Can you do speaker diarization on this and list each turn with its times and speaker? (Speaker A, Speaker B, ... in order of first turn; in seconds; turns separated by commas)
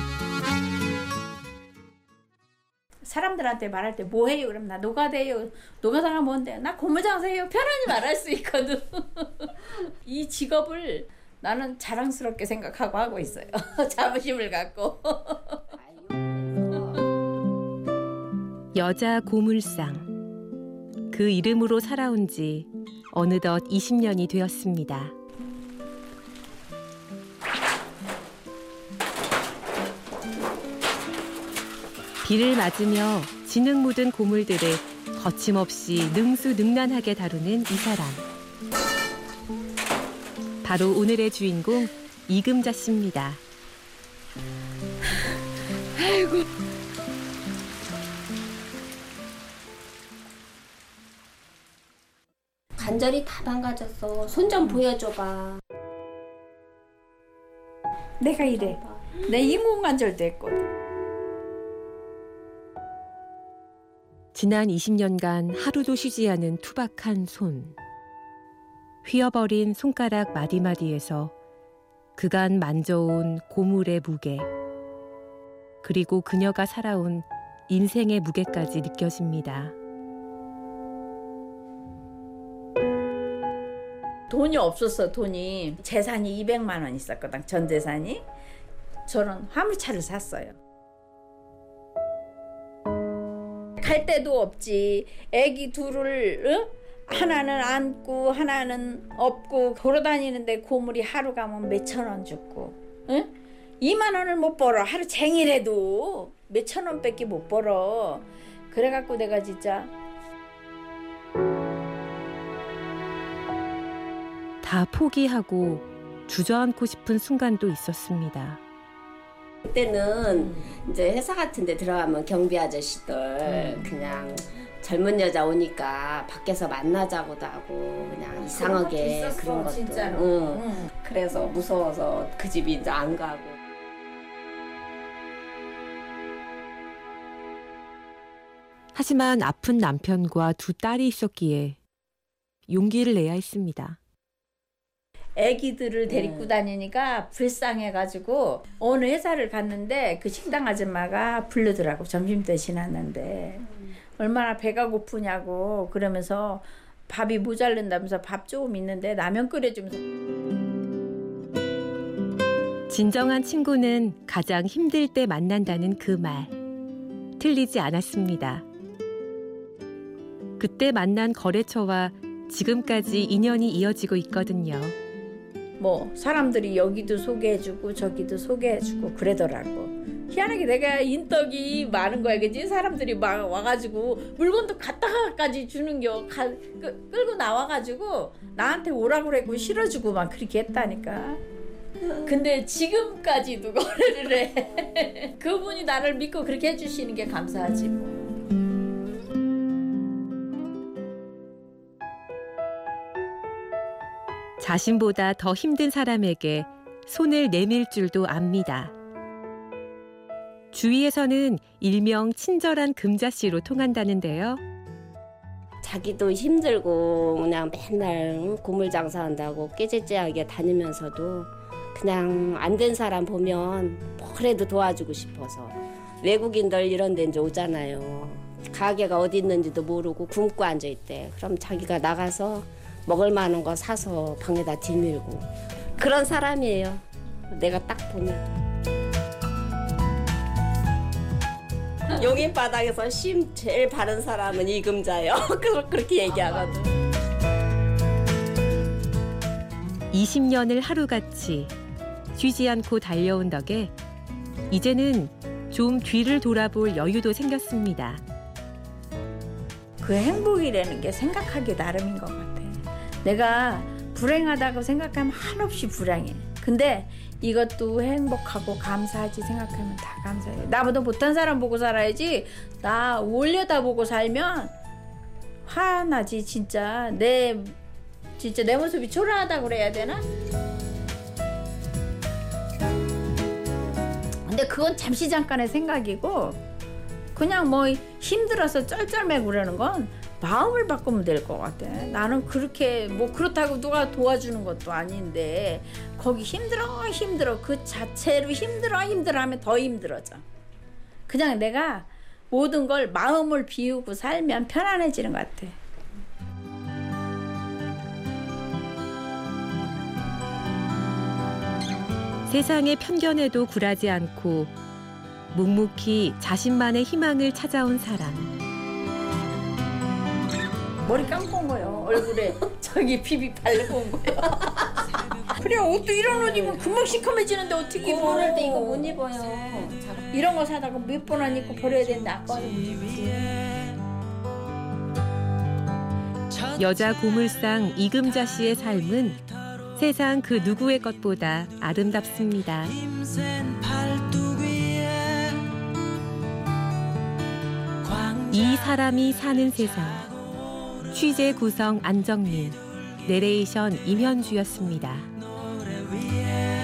Speaker A: 3.0-15.7, Speaker B: 15.8-17.0, Speaker C: 18.7-20.1, Speaker C: 21.1-25.1, Speaker C: 32.2-38.2, Speaker C: 40.6-43.4, Speaker A: 46.0-46.4, Speaker B: 52.8-55.6, Speaker A: 58.2-60.7, Speaker C: 64.3-67.7, Speaker C: 69.0-71.3, Speaker C: 72.2-74.5, Speaker C: 75.8-79.7, Speaker A: 84.3-88.2, Speaker A: 89.1-90.6, Speaker A: 93.8-109.9, Speaker C: 114.6-118.6, Speaker B: 119.7-133.6, Speaker A: 128.5-130.9, Speaker C: 138.9-141.8, Speaker C: 142.7-144.0, Speaker A: 145.3-153.6, Speaker B: 146.1-146.5, Speaker A: 154.2-160.0, Speaker C: 162.9-166.5, Speaker C: 167.4-168.6, Speaker C: 170.6-174.9, Speaker A: 175.8-191.4, Speaker A: 192.2-198.3, Speaker C: 204.6-208.9, Speaker C: 210.7-214.6, Speaker B: 215.8-238.4, Speaker B: 242.1-246.8, Speaker C: 250.1-251.7, Speaker C: 252.3-253.9, Speaker C: 254.7-258.2, Speaker A: 260.0-274.7, Speaker A: 275.6-277.8, Speaker A: 278.4-280.2, Speaker A: 284.4-286.6, Speaker A: 287.3-300.4, Speaker A: 301.3-305.8, Speaker C: 312.5-314.7, Speaker C: 315.5-318.5, Speaker A: 321.0-324.9, Speaker A: 325.5-329.1, Speaker B: 328.0-330.3, Speaker A: 330.3-333.7, Speaker C: 336.6-339.4, Speaker C: 339.9-343.0, Speaker C: 344.2-344.8, Speaker C: 348.0-350.4, Speaker C: 351.1-355.3